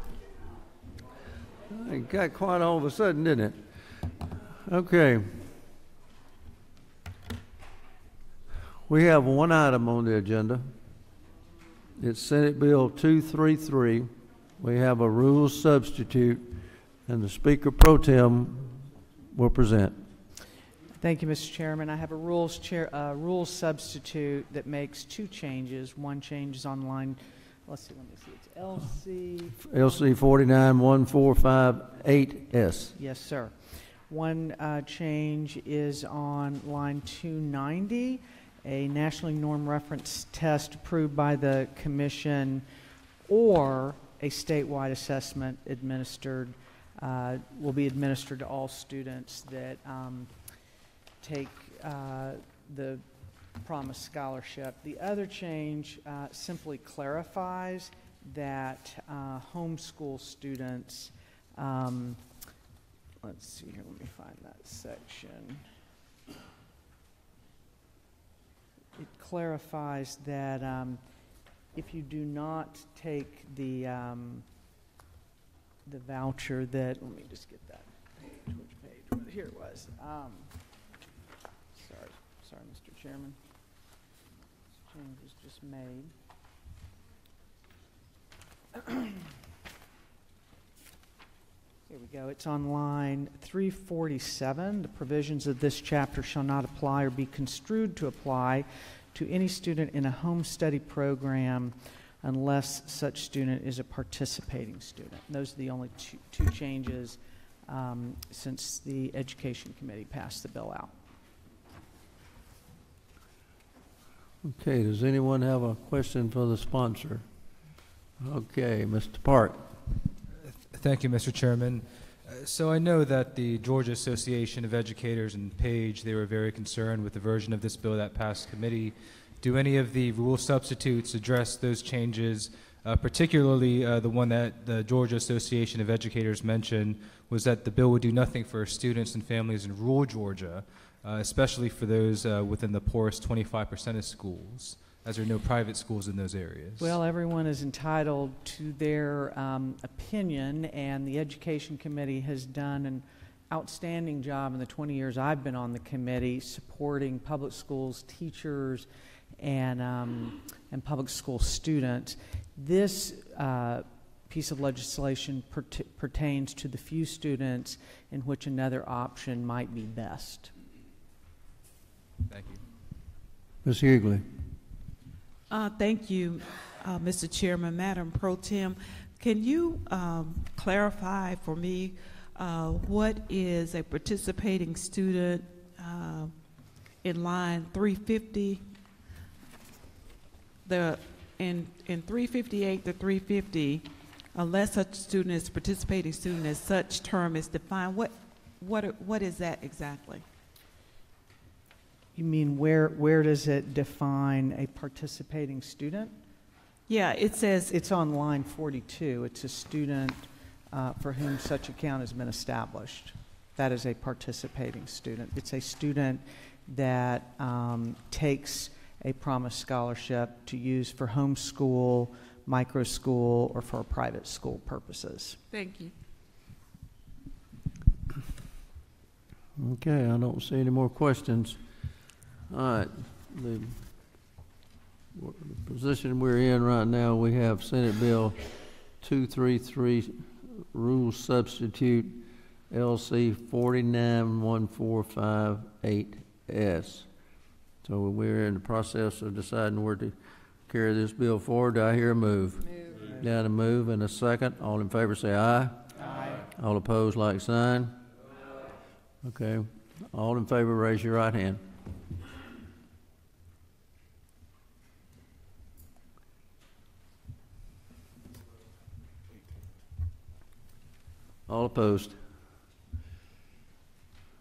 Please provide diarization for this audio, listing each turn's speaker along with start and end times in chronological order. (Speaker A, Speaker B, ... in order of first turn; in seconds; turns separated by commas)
Speaker A: 1.7-3.6, Speaker A: 4.7-5.5, Speaker A: 8.9-10.7, Speaker A: 12.0-19.9, Speaker B: 21.0-29.6, Speaker A: 29.6-32.9, Speaker B: 33.0-42.6, Speaker B: 43.3-50.3, Speaker B: 51.2-53.0, Speaker B: 53.6-62.2, Speaker B: 63.2-65.6, Speaker B: 69.0-71.0, Speaker B: 71.7-74.5, Speaker B: 75.8-80.5, Speaker B: 81.7-83.4, Speaker B: 84.8-86.1, Speaker B: 91.9-110.9, Speaker A: 114.4-117.3, Speaker A: 118.2-119.6, Speaker C: 120.4-147.0, Speaker B: 146.8-158.9, Speaker B: 159.4-170.5, Speaker C: 172.3-172.6, Speaker A: 173.6-174.2, Speaker D: 175.5-188.6, Speaker D: 190.6-200.2, Speaker B: 202.2-206.1, Speaker D: 206.9-207.7, Speaker B: 207.7-225.4, Speaker D: 225.5-225.9, Speaker A: 229.6-231.6, Speaker A: 232.5-233.8, Speaker A: 235.2-238.4, Speaker A: 239.0-247.1, Speaker A: 247.8-250.2, Speaker A: 250.7-258.0, Speaker A: 259.2-261.6, Speaker A: 271.5-272.2